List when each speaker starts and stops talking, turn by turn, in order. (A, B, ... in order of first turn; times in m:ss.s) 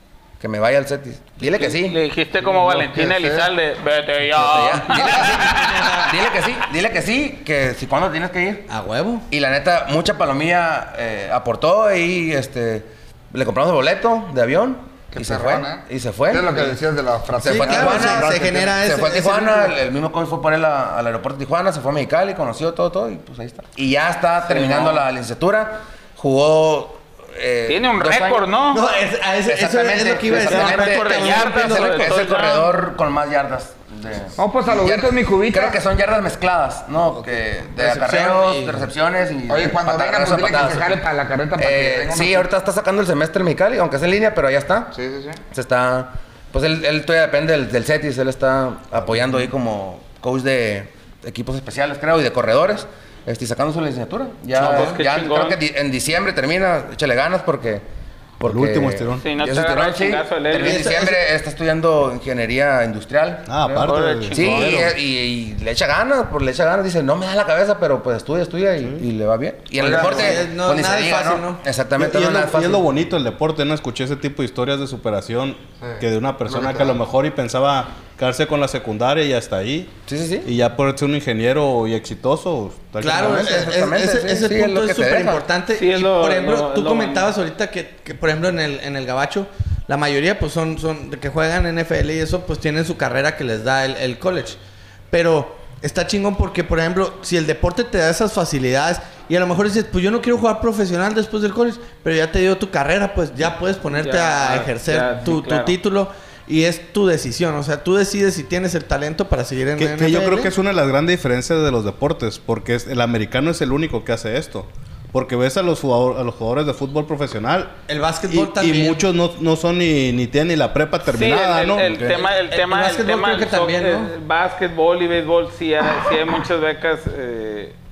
0:00.4-0:02.0 A
0:01.4-0:05.9 B
0:02.5-0:03.5 C
0:04.3-0:08.7 A
0:05.3-0:06.1 D
0:08.7-0:09.3 D
0:09.3-0:16.7 A
0:15.1-0:18.8 C
0:17.4-0:19.8 D
0:17.4-0:28.5 A
0:24.5-0:25.0 B
0:27.7-0:28.8 B
0:28.7-0:32.2 D
0:29.5-0:41.0 A
0:30.4-0:32.8 B
0:34.4-0:35.8 C
0:37.8-0:38.9 D
0:39.5-0:42.5 C
0:41.6-0:44.9 A
0:44.9-0:45.4 C
0:45.5-0:57.8 A
0:54.6-0:55.6 B
0:54.6-0:55.0 D
0:58.4-1:12.8 A
0:58.4-0:59.2 E
0:59.2-1:01.0 B
1:00.6-1:01.2 D
1:03.5-1:04.9 E
1:03.7-1:04.9 B
1:09.8-1:11.6 D
1:09.8-1:10.4 C
1:12.0-1:23.7 E
1:15.8-1:16.9 C
1:20.1-1:20.5 A
1:23.0-1:34.6 D
1:23.1-1:25.4 A
1:25.8-1:27.3 B
1:35.1-1:50.5 D
1:44.0-1:45.8 B
1:49.8-2:02.2 E
1:57.9-1:59.0 D
2:01.1-2:07.8 B
2:02.2-2:04.1 D